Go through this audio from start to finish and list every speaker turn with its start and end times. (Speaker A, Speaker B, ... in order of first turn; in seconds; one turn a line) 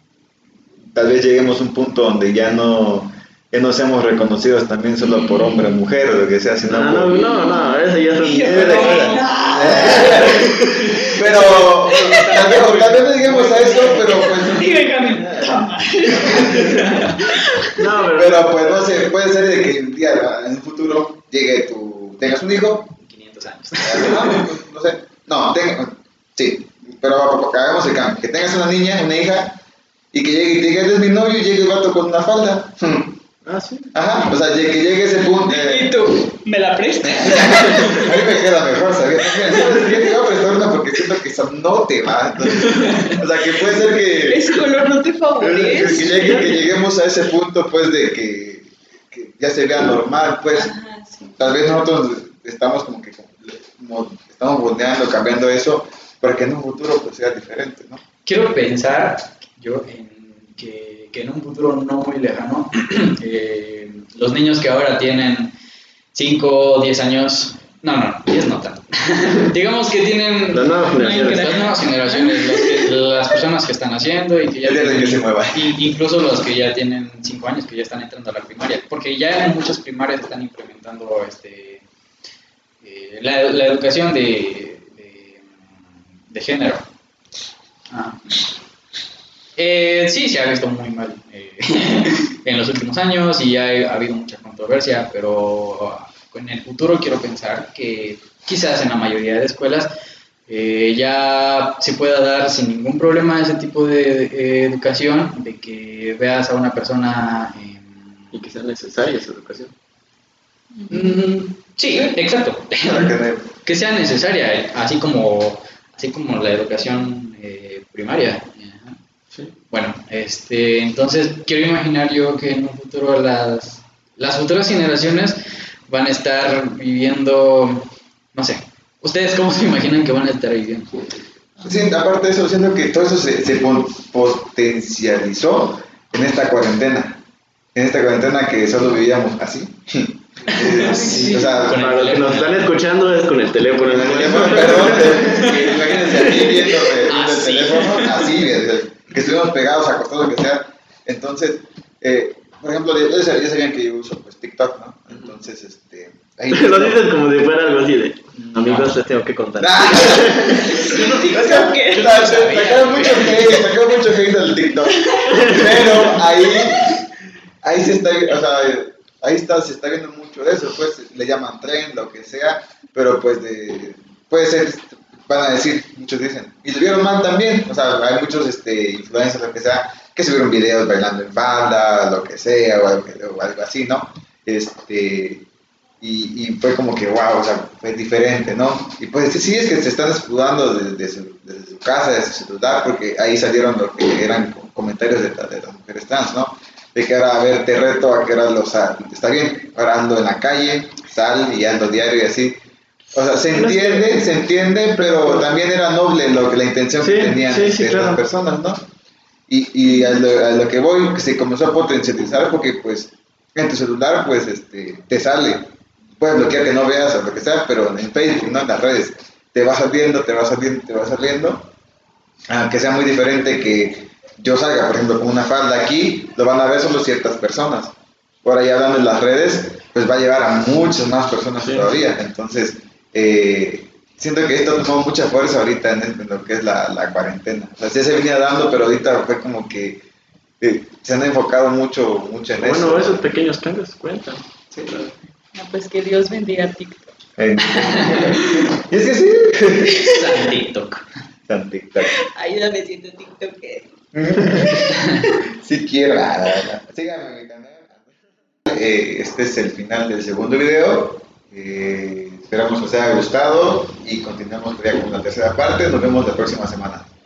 Speaker A: 0.9-7.5
Speaker B: 6.7-14.5
Speaker C: 7.4-7.6
Speaker C: 8.2-11.3
Speaker A: 8.4-14.9
Speaker C: 11.9-12.5
Speaker C: 13.6-17.9
Speaker B: 15.0-18.9
Speaker A: 16.1-17.0
Speaker A: 18.1-22.9
Speaker D: 22.9-24.4
Speaker A: 23.8-29.6
Speaker A: 30.1-33.1
Speaker B: 33.4-34.0
Speaker A: 33.9-35.9
Speaker C: 35.5-38.3
Speaker A: 37.0-44.6
Speaker C: 39.3-40.1
Speaker C: 44.1-46.6
Speaker A: 45.4-50.7
Speaker C: 50.5-51.5
Speaker A: 51.4-58.0
Speaker D: 58.2-65.5
Speaker D: 66.1-81.8
Speaker B: 70.5-71.7
Speaker C: 71.1-72.9
Speaker A: 74.6-75.7
Speaker D: 82.8-86.8
Speaker D: 87.9-88.5
Speaker D: 89.5-99.9
Speaker D: 100.5-108.4
Speaker B: 108.3-109.7
Speaker D: 110.9-119.0
Speaker A: 112.8-113.5
Speaker D: 119.7-131.2
Speaker A: 131.6-137.2
Speaker A: 137.7-141.9
Speaker D: 140.5-142.7
Speaker B: 141.0-146.0
Speaker A: 143.8-157.1
Speaker D: 144.9-148.3
Speaker B: 156.5-160.8
Speaker D: 158.3-158.9
Speaker A: 159.6-167.1
Speaker C: 160.4-163.8
Speaker D: 161.9-163.5
Speaker C: 164.8-166.9
Speaker B: 165.3-165.8
Speaker A: 167.6-185.4
Speaker A: 186.0-202.6
Speaker A: 203.1-208.9
Speaker B: 203.5-204.1
Speaker B: 207.0-208.2
Speaker A: 209.5-221.7
Speaker A: 222.5-240.0
Speaker B: 231.6-231.9
Speaker A: 240.6-243.3
Speaker B: 242.6-245.1
Speaker C: 245.5-247.2
Speaker A: 247.4-250.2
Speaker D: 247.8-248.7
Speaker C: 249.9-250.3
Speaker D: 250.0-251.1
Speaker A: 251.5-252.2
Speaker C: 252.0-255.5
Speaker A: 254.1-258.1
Speaker A: 258.6-267.1